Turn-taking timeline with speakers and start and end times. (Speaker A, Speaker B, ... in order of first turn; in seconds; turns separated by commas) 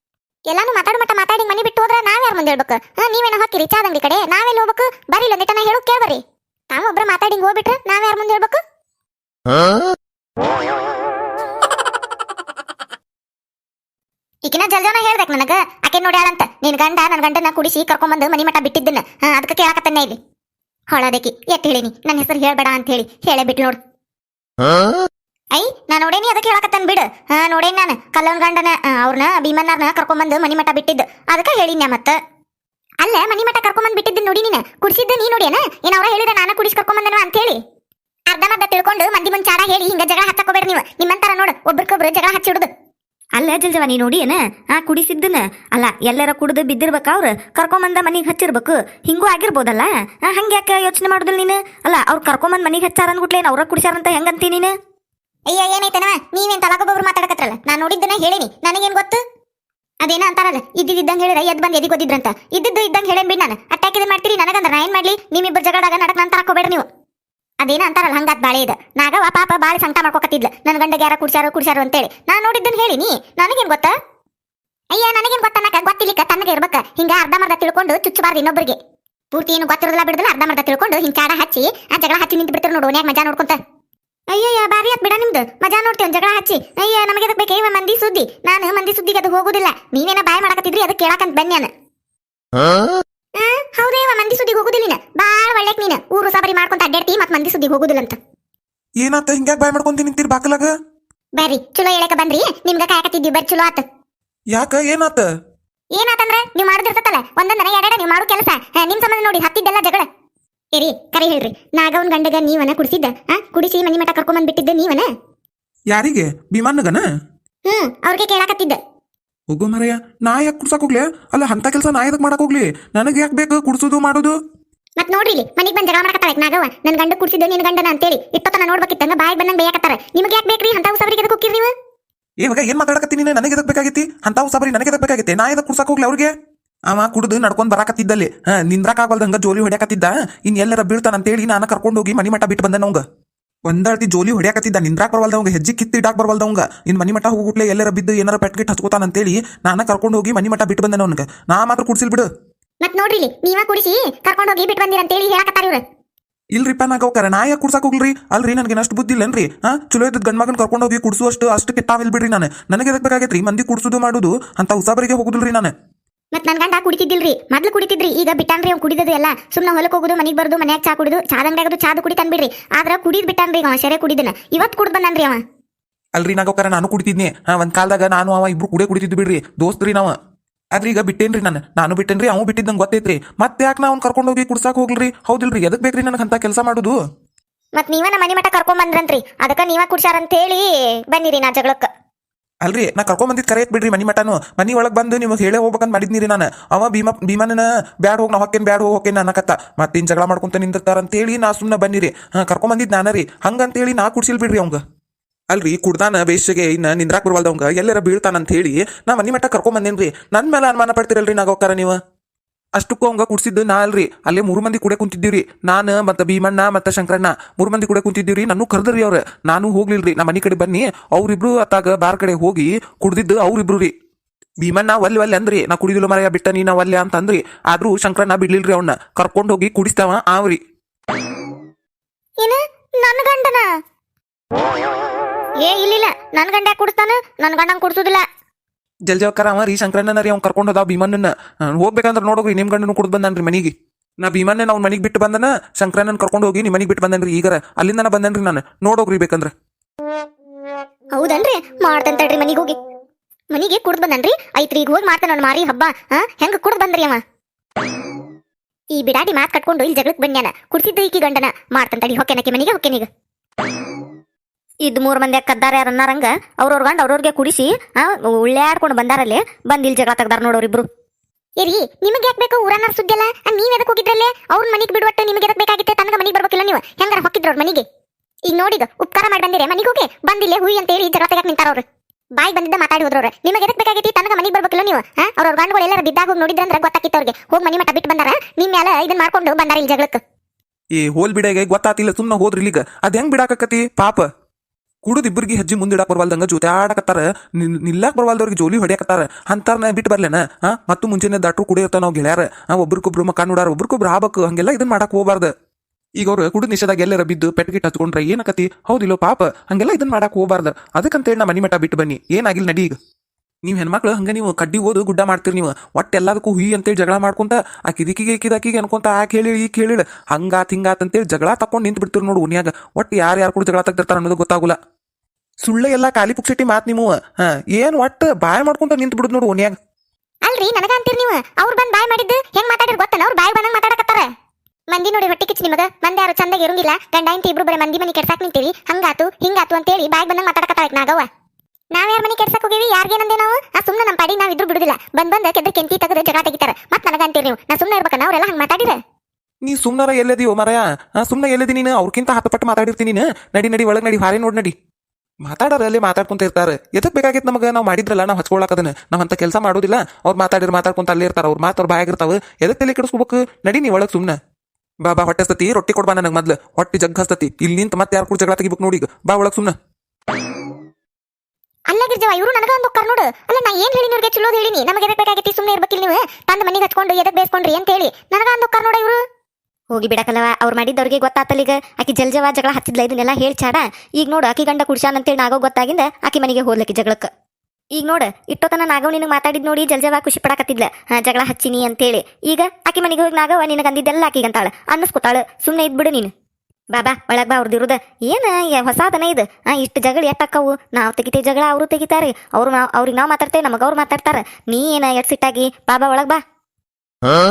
Speaker A: 0.5-8.6, Speaker A: 14.4-20.2, Speaker A: 20.9-23.8, Speaker A: 25.5-32.2, Speaker A: 33.0-37.6, Speaker A: 38.3-42.7, Speaker B: 43.3-54.7, Speaker A: 55.5-59.2, Speaker A: 60.0-66.9, Speaker A: 67.6-73.9, Speaker A: 74.9-78.8, Speaker A: 79.3-83.6, Speaker A: 84.3-91.7, Speaker A: 93.3-98.2, Speaker C: 99.0-100.7, Speaker A: 101.4-103.8, Speaker C: 104.5-105.3, Speaker A: 105.9-110.1, Speaker A: 110.7-115.1, Speaker C: 115.9-117.0, Speaker A: 117.7-118.8, Speaker C: 119.5-124.3, Speaker A: 125.0-131.7, Speaker C: 132.4-136.3, Speaker C: 136.9-143.0, Speaker C: 143.7-152.3, Speaker A: 152.8-155.8, Speaker C: 156.5-165.7, Speaker A: 166.3-175.4, Speaker C: 176.2-180.1, Speaker C: 180.7-186.9, Speaker A: 187.8-191.9, Speaker C: 192.6-204.8, Speaker C: 205.5-212.0, Speaker C: 212.8-223.9, Speaker C: 224.6-230.6, Speaker A: 232.4-233.7, Speaker A: 235.6-238.2, Speaker C: 239.1-249.5, Speaker A: 251.1-252.8, Speaker A: 253.5-257.2, Speaker A: 258.9-263.1, Speaker B: 264.8-270.9, Speaker A: 271.6-277.8, Speaker A: 278.5-281.9, Speaker A: 282.4-290.2, Speaker C: 290.9-294.3, Speaker C: 295.0-305.5, Speaker C: 306.2-312.9, Speaker C: 313.6-324.8, Speaker C: 325.6-329.7, Speaker A: 330.4-334.3, Speaker A: 334.9-341.3, Speaker A: 341.9-349.0, Speaker C: 349.6-354.7, Speaker C: 355.4-364.4, Speaker C: 365.0-369.7, Speaker A: 371.9-379.2, Speaker B: 379.9-387.3, Speaker B: 387.9-396.3, Speaker B: 396.9-406.4